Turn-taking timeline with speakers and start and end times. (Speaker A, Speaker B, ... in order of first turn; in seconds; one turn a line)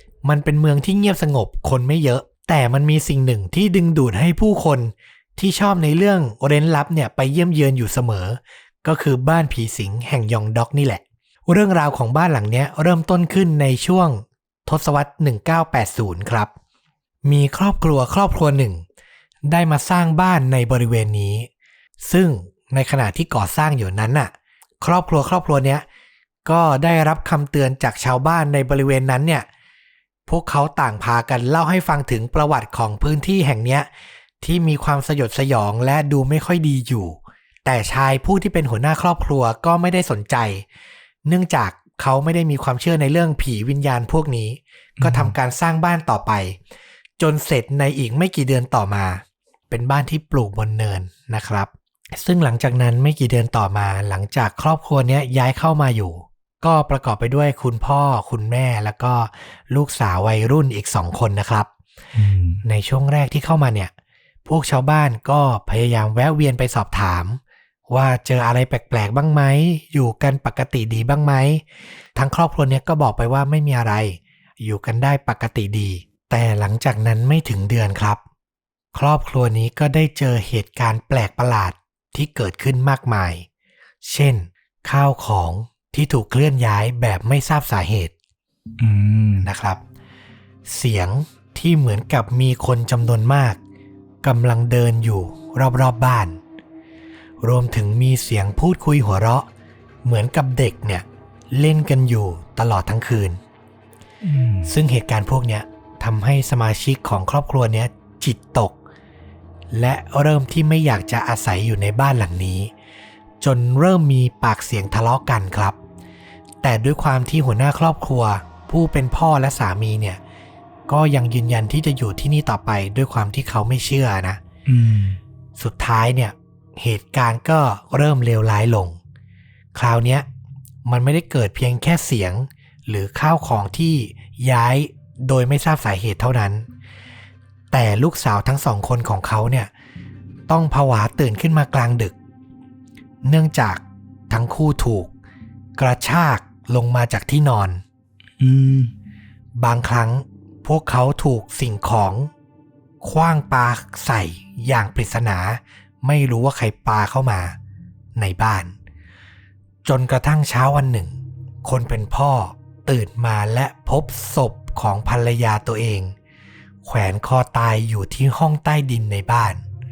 Speaker A: 0.2-16.5
Speaker A: 17.2-18.8
Speaker A: 19.5-21.5
Speaker A: 22.0-25.8
Speaker A: 26.4-29.4
Speaker A: 30.3-33.9
Speaker A: 34.4-40.6
Speaker A: 41.2-46.6
Speaker B: 45.0-45.4
Speaker A: 47.2-61.7
Speaker B: 62.1-62.6
Speaker A: 62.6-63.9
Speaker A: 64.4-78.2
Speaker A: 78.9-83.5
Speaker A: 84.0-88.1
Speaker B: 88.8-89.5
Speaker A: 89.4-89.8
Speaker A: 90.7-93.6
Speaker A: 94.2-96.4
Speaker A: 97.4-99.5
Speaker A: 100.0-103.4
Speaker B: 104.2-104.7
Speaker A: 104.7-108.8
Speaker A: 109.7-112.7
Speaker A: 113.4-115.8
Speaker A: 116.6-120.2
Speaker A: 120.9-124.4
Speaker B: 124.7-125.2
Speaker A: 125.6-129.0
Speaker A: 129.7-130.3
Speaker A: 130.8-136.7
Speaker A: 137.7-139.7
Speaker A: 140.5-142.2
Speaker A: 143.2-145.1
Speaker A: 145.8-147.8
Speaker B: 148.4-148.9
Speaker A: 149.6-152.3
Speaker A: 153.0-157.6
Speaker A: 158.1-158.7
Speaker A: 159.8-166.1
Speaker A: 166.8-169.6